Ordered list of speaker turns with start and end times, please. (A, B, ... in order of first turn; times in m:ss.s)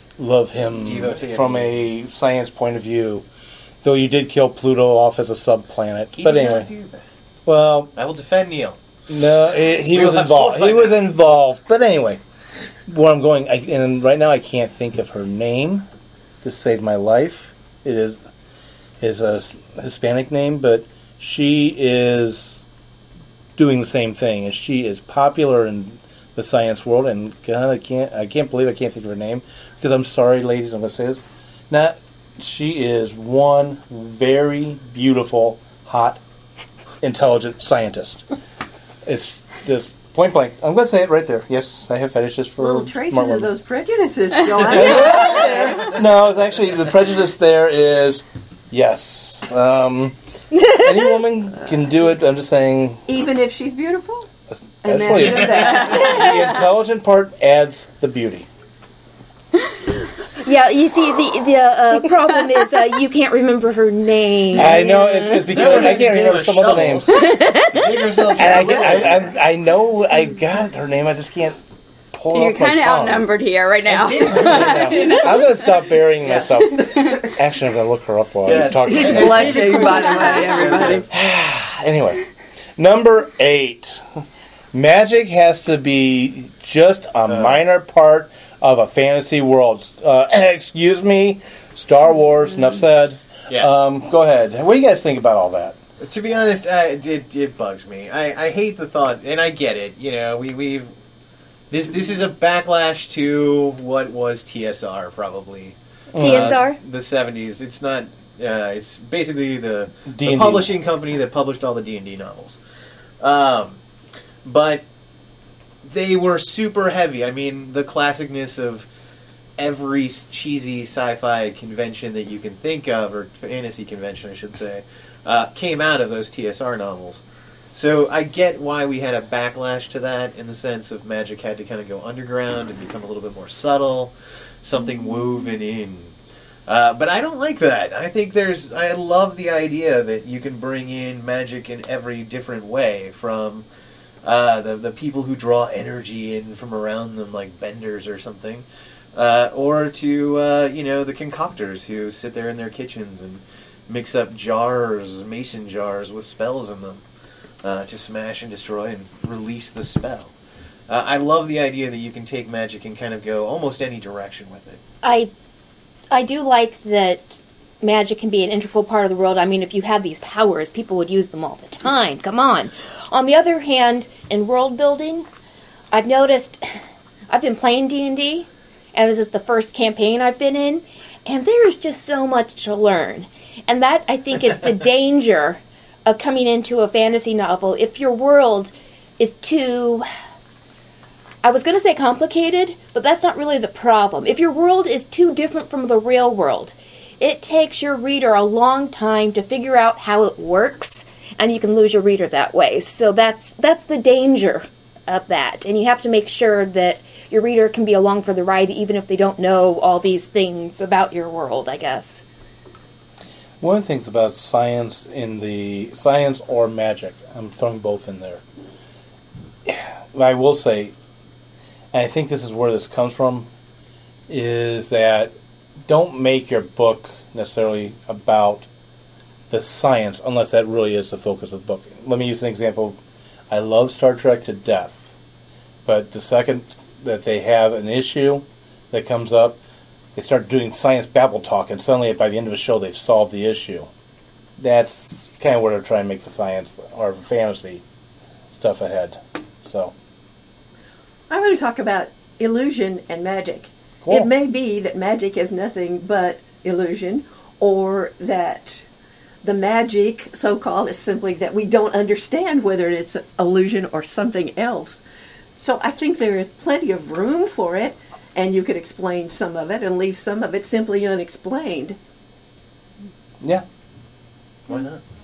0:00.2-0:03.2 A
0:00.6-0:01.8 B
0:03.8-0:06.7 A
0:06.2-0:07.0 B
0:07.4-0:07.9 A
0:08.0-0:08.8 B
0:09.1-0:12.2 A
0:09.8-0:11.0 B
0:12.9-0:15.8 A
0:16.4-0:18.2 A
0:19.0-0:22.6 A
0:23.6-0:36.2 A
0:37.0-0:38.2 A
0:39.0-0:43.5 A
0:42.6-0:45.9 C
0:44.6-0:53.0 A
0:44.8-0:45.8 B
0:53.1-0:54.3 C
0:54.5-0:58.5 A
0:54.8-0:56.4 C
0:55.2-0:55.8 B
1:00.4-1:05.9 D
1:04.6-1:07.2 A
1:05.5-1:09.3 B
1:07.1-1:08.5 D
1:08.4-1:11.6 A
1:12.1-1:13.3 A
1:12.3-1:15.7 E
1:13.9-1:15.2 B
1:14.4-1:19.9 A
1:16.2-1:17.3 C
1:18.4-1:21.1 B
1:18.5-1:21.0 C
1:19.6-1:20.9 E
1:21.1-1:22.2 A
1:22.8-1:24.0 A
1:24.7-1:35.8 A
1:27.3-1:27.6 B
1:36.0-1:40.9 B
1:41.7-1:52.6 B
1:46.1-1:46.6 A
1:46.2-1:46.8 D
1:50.0-1:50.7 A
1:53.2-1:53.8 B
1:54.4-1:54.8 B
1:55.8-1:58.9 B
1:59.6-2:07.2 B
2:07.7-2:14.1 B
2:14.6-2:16.1 B
2:16.7-2:23.6 B
2:24.2-2:37.0 B
2:37.6-2:40.3 B
2:40.9-2:44.8 B
2:45.0-2:45.3 D
2:46.1-2:55.3 D
2:55.9-2:56.8 D
2:57.3-3:10.0 D
3:11.4-3:32.2 D
3:33.6-3:38.4 A
3:39.6-3:40.9 A
3:41.9-3:43.5 A
3:44.3-3:45.3 A
3:45.8-3:48.7 A
3:49.5-3:53.0 A
3:53.5-3:55.1 A
3:55.8-3:59.6 A
4:00.1-4:03.9 A
4:04.6-4:07.8 A
4:08.5-4:09.9 A
4:11.3-4:18.8 C
4:19.4-4:25.0 C
4:25.6-4:32.0 C
4:34.7-4:35.0 B